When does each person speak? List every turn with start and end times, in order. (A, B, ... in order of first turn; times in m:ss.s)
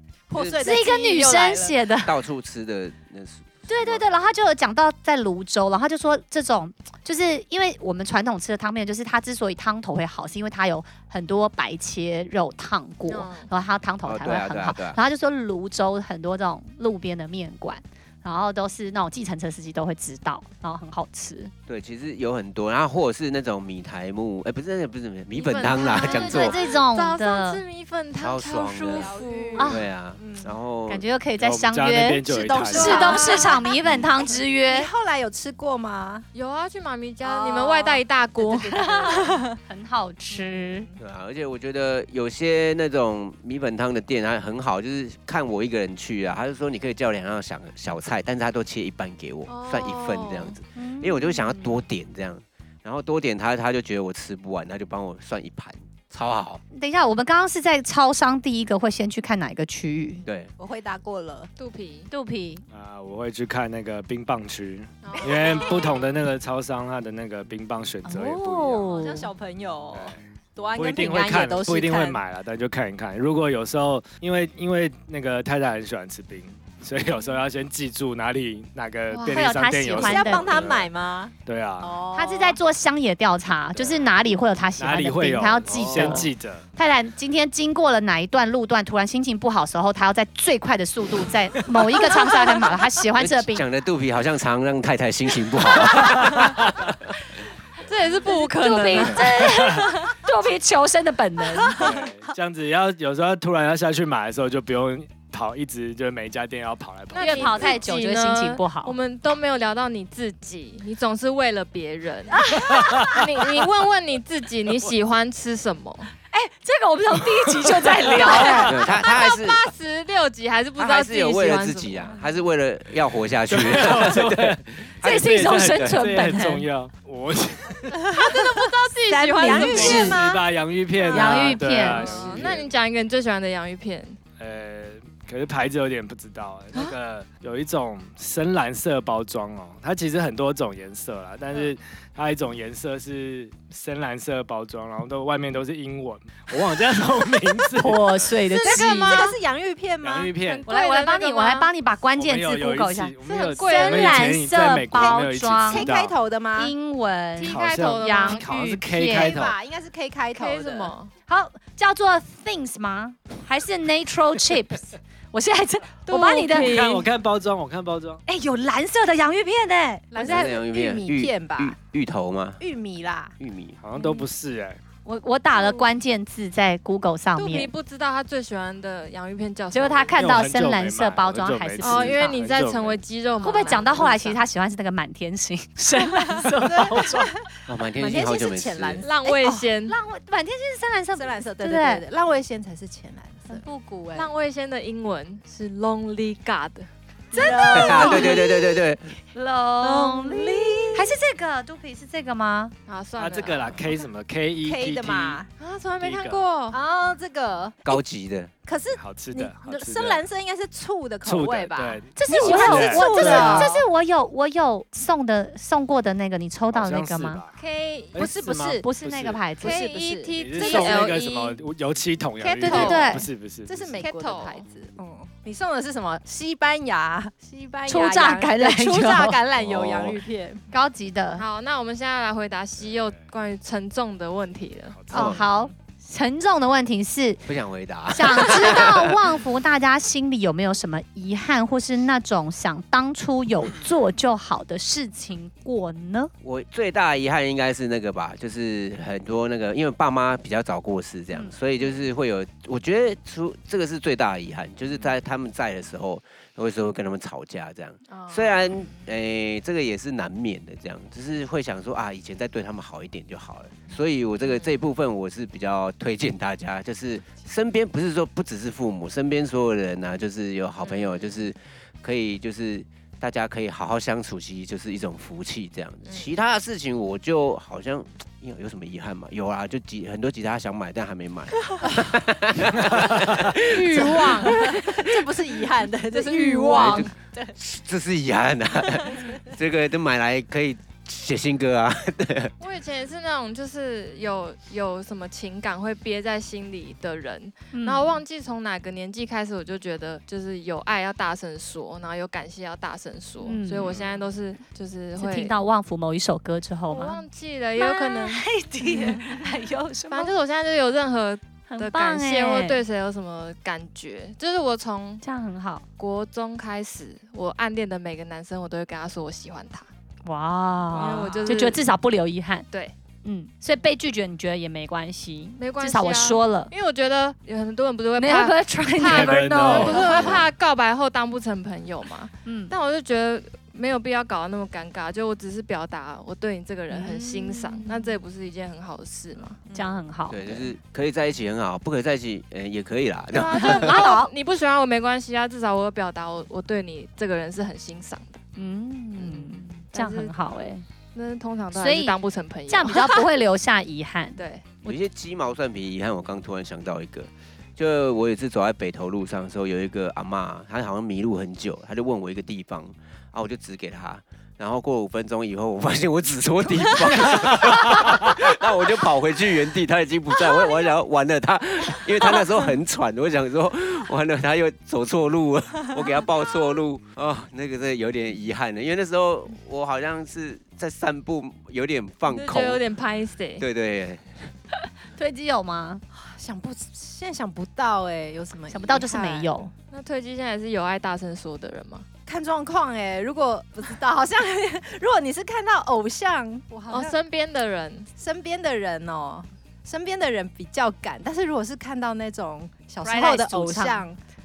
0:00.3-0:01.8 A
0:00.3-0:00.7 B
0:00.6-0:02.1 C
0:02.0-0:04.0 B
0:03.7-0:21.5 C
0:13.1-0:13.5 D
0:14.0-0:15.0 B
0:21.7-0:26.6 B
0:25.3-0:29.7 D
0:25.8-0:27.6 C
0:28.2-0:31.0 B
0:28.9-0:30.5 A
0:29.6-0:29.8 C
0:30.9-0:34.9 C
0:31.4-0:33.4 E
0:32.2-0:36.2 A
0:33.0-0:33.5 D
0:36.3-0:39.4 D
0:37.2-0:39.6 A
0:39.0-0:40.9 C
0:40.3-0:41.0 A
0:41.0-0:56.6 B
0:49.5-0:50.6 D
0:50.8-0:51.7 C
0:56.7-1:00.2 C
1:00.2-1:00.5 B
1:00.6-1:01.5 A
1:01.6-1:02.1 D
1:02.1-1:02.6 C
1:02.7-1:08.9 E
1:05.0-1:06.0 D
1:05.0-1:06.1 A
1:08.0-1:09.3 C
1:08.9-1:12.2 A
1:09.9-1:10.2 E
1:10.7-1:20.9 E
1:19.1-1:19.5 D
1:19.3-1:20.7 C
1:19.9-1:22.6 A
1:21.4-1:22.0 E
1:22.1-1:33.6 C
1:24.8-1:26.6 E
1:25.7-1:26.2 B
1:33.2-1:37.0 B
1:35.9-1:36.8 E
1:37.8-1:40.1 D
1:38.3-1:41.9 C
1:39.0-1:39.8 E
1:41.7-1:47.8 E
1:47.1-1:56.1 D
1:47.2-1:49.0 C
1:52.5-1:53.1 C
1:52.5-1:53.2 E
1:56.3-1:58.8 C
1:57.6-1:58.7 E
1:58.1-2:02.2 D
1:58.6-1:59.7 B
2:00.8-2:06.0 B
2:03.5-2:08.2 E
2:05.0-2:06.7 C
2:08.1-2:08.6 A
2:08.1-2:10.4 D
2:09.1-2:10.2 C
2:09.1-2:10.4 A
2:09.5-2:12.7 E
2:10.9-2:14.2 D
2:11.1-2:12.2 C
2:12.1-2:12.4 A
2:14.4-2:28.3 E
2:27.8-2:29.3 C
2:28.5-2:30.6 A
2:28.6-2:29.4 D
2:30.0-2:30.7 E
2:30.5-2:31.7 D
2:30.7-2:35.9 C
2:32.2-2:36.2 E
2:33.2-2:34.3 D
2:34.9-2:36.7 A
2:36.6-2:39.4 C
2:37.4-2:38.4 D
2:37.4-2:39.6 E
2:39.1-2:40.9 A
2:40.3-2:41.1 D
2:41.3-2:46.8 C
2:46.1-2:47.0 D
2:46.5-2:48.2 E
2:48.3-2:50.4 C
2:50.1-2:51.8 A
2:50.2-2:52.6 B
2:52.6-2:53.4 A
2:53.4-2:53.8 B
2:53.8-2:54.8 E
2:54.0-2:54.2 D
2:54.0-2:54.2 C
2:55.0-2:57.7 C
2:55.5-2:55.9 D
2:57.4-3:00.4 D
2:59.7-3:02.4 C
3:00.2-3:03.0 E
3:01.8-3:04.4 D
3:03.4-3:07.3 C
3:06.6-3:09.1 A
3:07.7-3:09.1 B
3:09.0-3:10.0 D
3:09.2-3:12.0 C
3:11.1-3:13.6 A
3:13.5-3:14.3 C
3:14.1-3:18.2 D
3:17.3-3:18.6 C
3:17.3-3:18.6 A
3:17.7-3:19.1 B
3:19.3-3:22.7 C
3:19.8-3:21.1 A
3:22.9-3:24.0 D
3:23.2-3:25.4 E
3:24.6-3:25.5 A
3:25.6-3:26.8 D
3:26.0-3:26.4 E
3:26.7-3:27.8 A
3:27.8-3:28.5 B
3:28.6-3:33.8 A
3:29.0-3:30.2 E
3:31.2-3:33.8 E
3:32.2-3:37.4 C
3:36.7-3:37.6 E
3:37.6-3:38.2 D
3:38.1-3:39.5 E
3:38.2-3:38.8 A
3:38.8-3:39.8 C
3:39.6-3:41.2 A
3:39.6-3:41.6 D
3:40.3-3:44.0 E
3:42.4-3:50.6 A
3:42.6-3:43.3 C
3:42.7-3:43.0 D
3:44.0-3:44.6 D
3:47.9-3:49.4 C
3:49.5-3:50.2 E
3:50.7-3:51.4 C
3:51.4-3:55.0 D
3:52.8-3:53.2 E
3:54.9-3:55.7 E
3:55.1-3:57.4 C
3:55.1-3:55.4 B
3:57.4-3:59.2 B
3:58.1-4:06.3 C
4:06.4-4:45.1 B
4:18.1-4:19.0 D
4:24.4-4:24.8 D
4:30.8-4:31.3 D
4:36.0-4:36.3 D
4:43.0-4:43.3 E
4:43.6-4:44.7 D
4:43.9-4:47.5 A
4:46.1-4:47.1 D
4:46.7-4:52.5 B
4:52.6-5:05.6 D
4:57.7-4:58.2 C
5:03.4-5:04.1 C
5:05.2-5:07.2 C
5:06.9-5:09.2 D
5:07.8-5:10.3 C
5:10.1-5:15.2 D
5:11.7-5:12.8 C
5:15.2-5:15.8 C
5:16.0-5:19.9 D
5:20.2-5:22.6 C
5:20.9-5:21.8 D
5:23.2-5:26.7 C
5:25.6-5:39.6 D
5:28.2-5:30.4 C
5:29.0-5:30.4 E
5:32.4-5:32.7 C
5:36.9-5:38.1 C
5:39.7-5:40.0 A
5:39.7-5:40.7 C
5:40.3-5:44.0 B
5:43.3-5:48.4 D
5:43.5-5:44.3 C
5:48.6-5:50.8 C
5:49.2-5:53.3 D
5:51.7-5:52.2 C
5:52.7-5:55.0 C
5:54.4-5:54.6 D
5:54.8-6:22.8 B
6:22.3-6:23.6 D
6:23.6-6:24.5 B
6:25.1-6:26.0 C
6:26.1-6:29.5 A
6:28.7-6:29.7 C
6:29.9-6:32.0 D
6:32.2-6:37.2 A
6:36.9-6:38.1 D
6:38.2-6:44.2 A
6:43.0-6:44.1 C